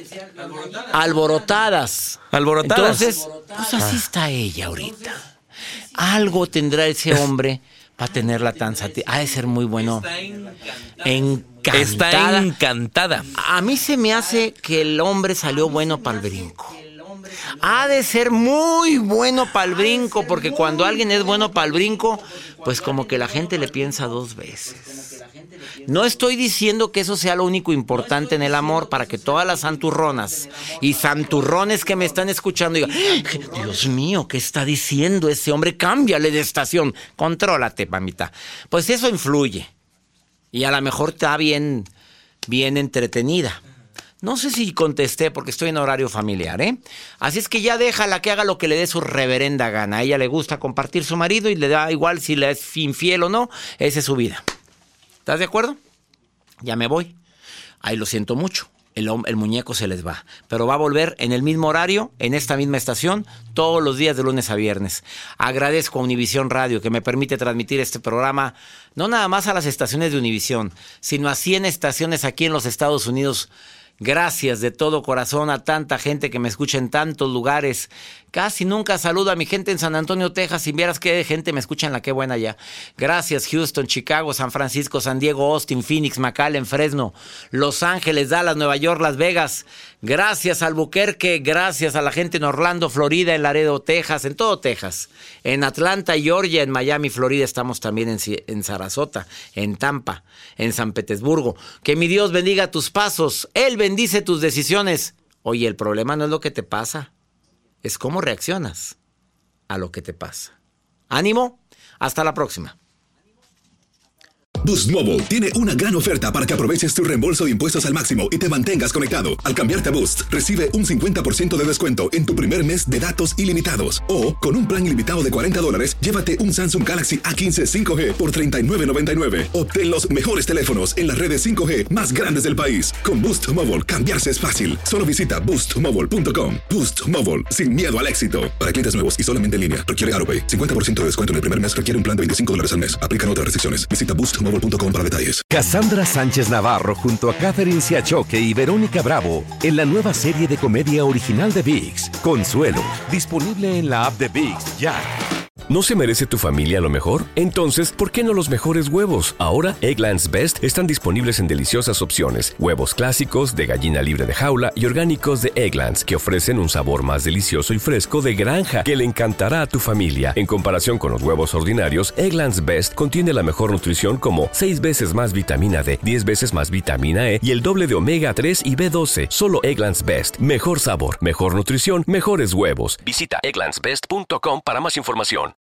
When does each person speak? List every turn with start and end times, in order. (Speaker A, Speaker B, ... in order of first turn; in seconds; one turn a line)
Speaker A: 0.4-5.2
Speaker B: 2.3-3.2
Speaker A: 5.9-10.2
Speaker A: 11.0-12.5
Speaker B: 11.7-13.3
Speaker A: 13.3-16.9
Speaker A: 17.4-25.3
Speaker A: 25.8-39.7
Speaker A: 40.5-41.9
Speaker A: 42.5-43.6
Speaker A: 44.2-54.4
Speaker A: 55.3-55.8
Speaker A: 56.6-57.1
Speaker A: 57.8-107.1
Speaker A: 107.8-108.9
Speaker A: 109.7-110.5
Speaker A: 111.1-112.8
Speaker C: 114.6-145.5
Speaker D: 145.5-155.1
Speaker E: 155.7-185.5